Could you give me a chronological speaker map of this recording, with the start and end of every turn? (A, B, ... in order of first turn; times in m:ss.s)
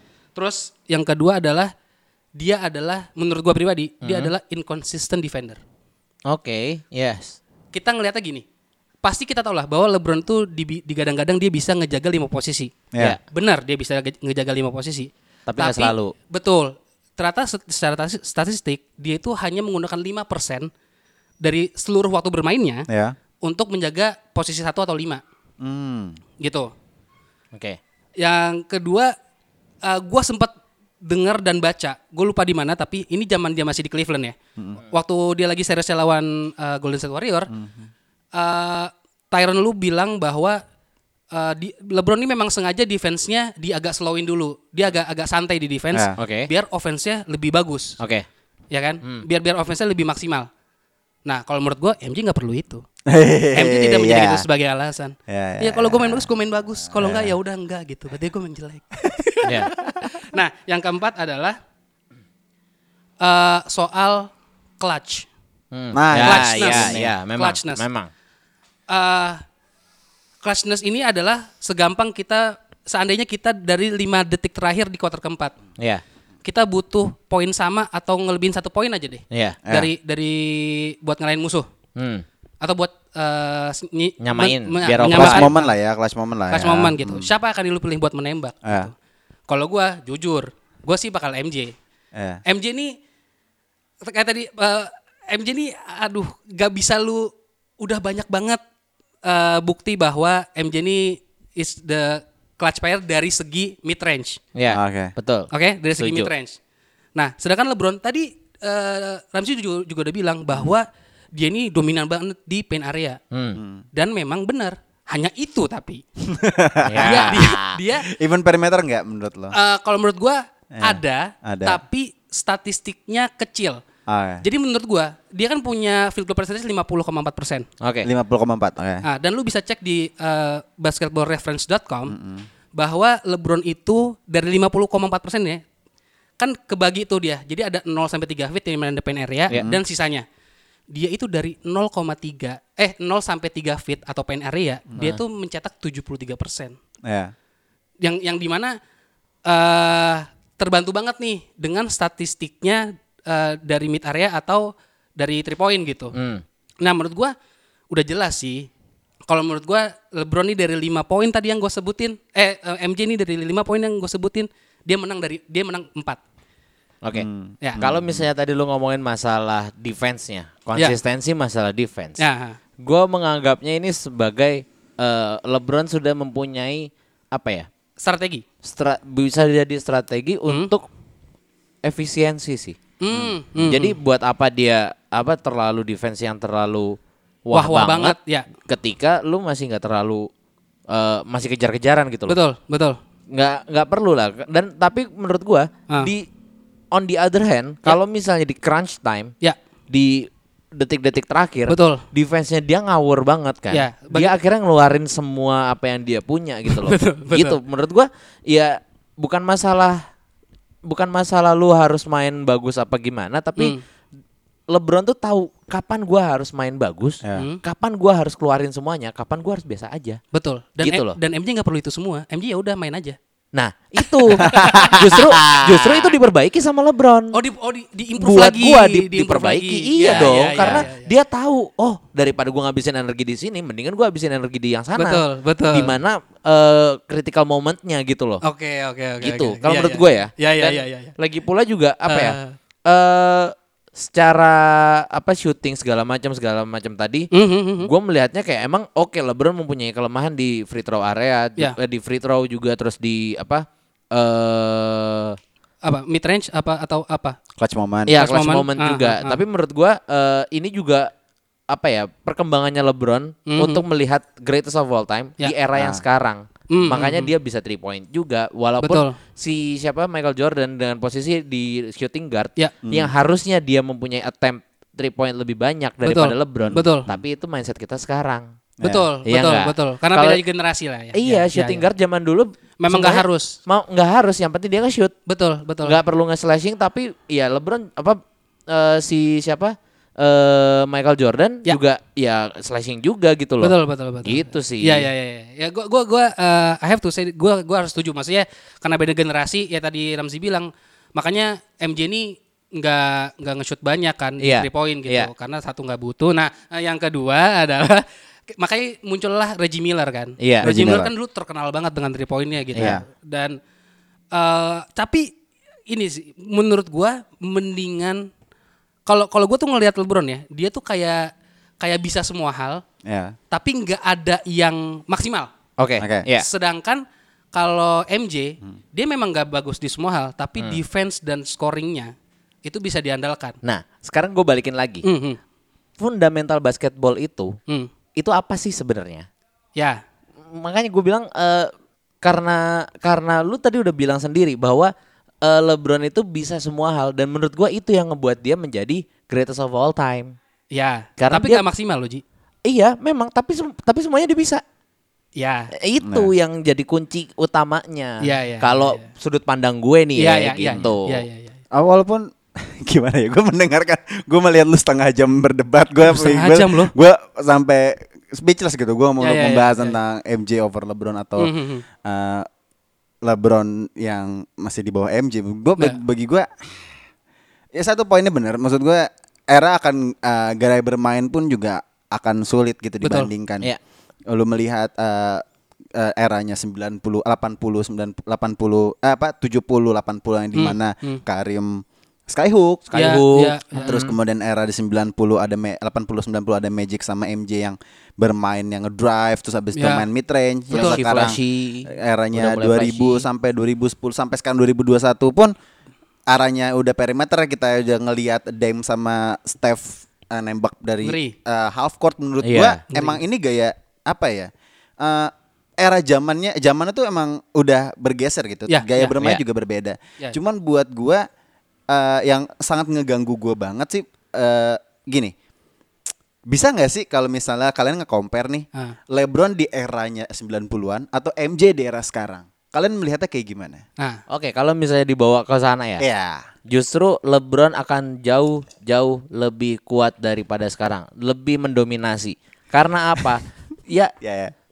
0:00.4-0:01.7 A
0:02.4-0:05.6 A
0:04.0-0:04.3 B
0:06.3-0:07.4 B
0:07.7-0:08.4 A
0:09.0-0:12.7 A
0:13.3-0:20.7 A
0:15.5-0:16.1 B
0:21.4-0:22.9 A
0:22.9-0:23.2 C
0:23.4-0:25.2 A
0:25.6-0:26.2 C
0:26.4-0:26.7 A
0:27.5-0:27.8 B
0:28.2-0:29.1 A
0:29.8-0:34.4 A
0:34.9-0:37.5 A
0:37.5-0:37.9 C
0:38.4-0:40.6 A
0:41.3-0:48.0 A
0:46.2-0:46.5 B
0:48.0-0:48.3 B
0:48.7-0:50.5 A
0:51.2-0:52.8 A
0:53.1-0:54.4 C
0:53.5-1:01.6 A
0:55.3-0:56.3 C
0:56.9-0:57.4 C
0:59.4-0:59.7 B
1:03.2-1:05.3 A
1:05.7-1:08.1 B
1:05.9-1:07.1 C
1:06.2-1:07.8 A
1:08.9-1:09.4 A
1:10.4-1:15.6 A
1:15.8-1:16.0 B
1:16.4-1:21.7 A
1:19.3-1:19.6 B
1:19.6-1:19.9 C
1:22.0-1:22.2 B
1:22.6-1:25.7 A
1:24.2-1:25.5 B
1:25.0-1:27.3 C
1:26.5-1:28.9 A
1:28.6-1:28.9 C
1:29.5-1:31.8 A
1:32.1-1:32.4 C
1:32.5-1:33.0 A
1:34.0-1:38.6 A
1:39.2-1:44.4 A
1:44.6-1:46.3 B
1:44.7-1:45.1 C
1:45.5-1:46.6 A
1:47.2-1:53.2 A
1:53.3-1:53.6 B
1:53.6-1:53.8 C
1:53.9-1:56.0 A
1:56.2-1:57.5 C
1:56.9-1:57.7 B
1:57.0-1:58.1 A
1:58.0-1:59.6 C
1:59.5-2:03.8 A
2:00.7-2:01.8 C
2:04.1-2:04.4 C
2:04.4-2:07.7 A
2:07.8-2:08.1 B
2:08.0-2:09.0 C
2:09.0-2:12.2 A
2:12.1-2:12.5 C
2:12.8-2:15.6 A
2:16.4-2:20.2 A
2:19.5-2:19.8 C
2:20.9-2:26.8 A
2:27.0-2:27.3 C
2:28.0-2:28.8 A
2:29.5-2:36.1 A
2:36.1-2:36.4 B
2:36.8-2:37.3 A
2:37.9-2:38.7 A
2:39.3-2:46.2 A
2:47.0-2:52.2 B
2:47.1-2:48.3 C
2:52.2-2:52.6 A
2:52.8-2:57.7 B
2:58.0-2:58.4 A
2:58.6-3:00.8 B
3:01.8-3:02.8 B
3:03.0-3:04.0 A
3:03.6-3:10.3 B
3:07.5-3:08.5 A
3:10.9-3:12.4 B
3:12.3-3:13.0 A
3:13.3-3:16.2 B
3:16.9-3:19.3 B
3:19.9-3:30.0 B
3:21.7-3:22.0 A
3:23.7-3:24.3 A
3:26.7-3:27.6 A
3:30.8-3:33.8 B
3:34.7-3:40.2 B
3:37.4-3:37.6 A
3:40.3-3:43.2 A
3:40.8-3:41.2 B
3:43.5-3:47.4 B
3:44.0-3:45.2 A
3:44.4-3:46.0 C
3:47.3-3:51.1 A
3:48.2-3:58.4 B
3:50.1-3:50.8 C
3:55.0-3:55.9 A
3:58.4-4:01.1 A
3:59.2-4:07.3 B
4:02.1-4:02.6 A
4:07.3-4:07.9 A
4:07.8-4:15.4 B
4:15.8-4:17.4 A
4:17.6-4:18.2 C
4:18.1-4:19.4 A
4:18.1-4:21.1 B
4:21.7-4:38.5 B
4:23.5-4:23.8 A
4:25.8-4:26.0 C
4:26.7-4:27.3 A
4:28.8-4:29.2 A
4:32.8-4:33.1 C
4:36.0-4:37.1 A
4:36.6-4:37.2 C
4:38.8-4:39.1 C
4:38.8-4:41.8 A
4:39.3-4:40.4 B
4:41.1-4:45.2 B
4:42.8-4:43.6 A
4:45.3-4:46.0 A
4:45.8-4:55.1 B
4:53.6-5:13.6 A
5:04.4-5:05.3 B
5:10.4-5:10.7 B
5:10.6-5:11.1 C
5:12.8-5:13.0 C
5:14.3-5:15.3 A
5:15.9-5:18.3 A
5:19.1-5:22.8 A
5:23.0-5:23.4 C
5:23.5-5:25.5 A
5:25.8-5:26.5 B
5:26.0-5:26.3 C
5:26.4-5:32.1 A
5:32.6-5:33.6 A
5:33.6-5:35.0 B
5:35.0-5:35.4 A
5:36.0-5:37.6 B
5:38.2-5:39.3 B
5:39.8-5:40.0 A
5:40.5-5:41.7 B
5:42.2-5:50.4 B
5:50.7-5:52.2 A
5:51.2-5:51.6 B
5:52.7-5:54.6 B
5:55.4-5:55.7 A
5:55.8-6:01.2 B
5:56.0-5:56.3 C
5:58.2-5:59.1 A
6:00.2-6:01.6 A
6:01.7-6:12.5 C
6:06.0-6:06.9 A
6:09.2-6:10.0 A
6:11.4-6:11.8 A
6:13.2-6:16.9 C
6:17.7-6:23.7 C
6:23.0-6:23.3 A
6:24.3-6:25.4 C
6:26.0-6:32.9 C
6:30.6-6:31.2 A
6:32.9-6:34.2 B
6:33.0-6:34.0 A
6:33.8-6:45.5 C
6:39.8-6:40.1 A
6:40.7-6:43.3 B
6:40.7-6:41.0 A
6:46.3-7:01.3 C
6:51.0-6:51.3 A
6:52.4-6:52.8 B
6:52.9-6:53.2 A
6:58.7-6:59.2 A
7:01.9-7:05.3 C
7:06.5-7:13.8 C
7:14.3-7:16.0 B
7:16.0-7:16.4 C
7:16.7-7:24.1 B
7:24.2-7:24.5 C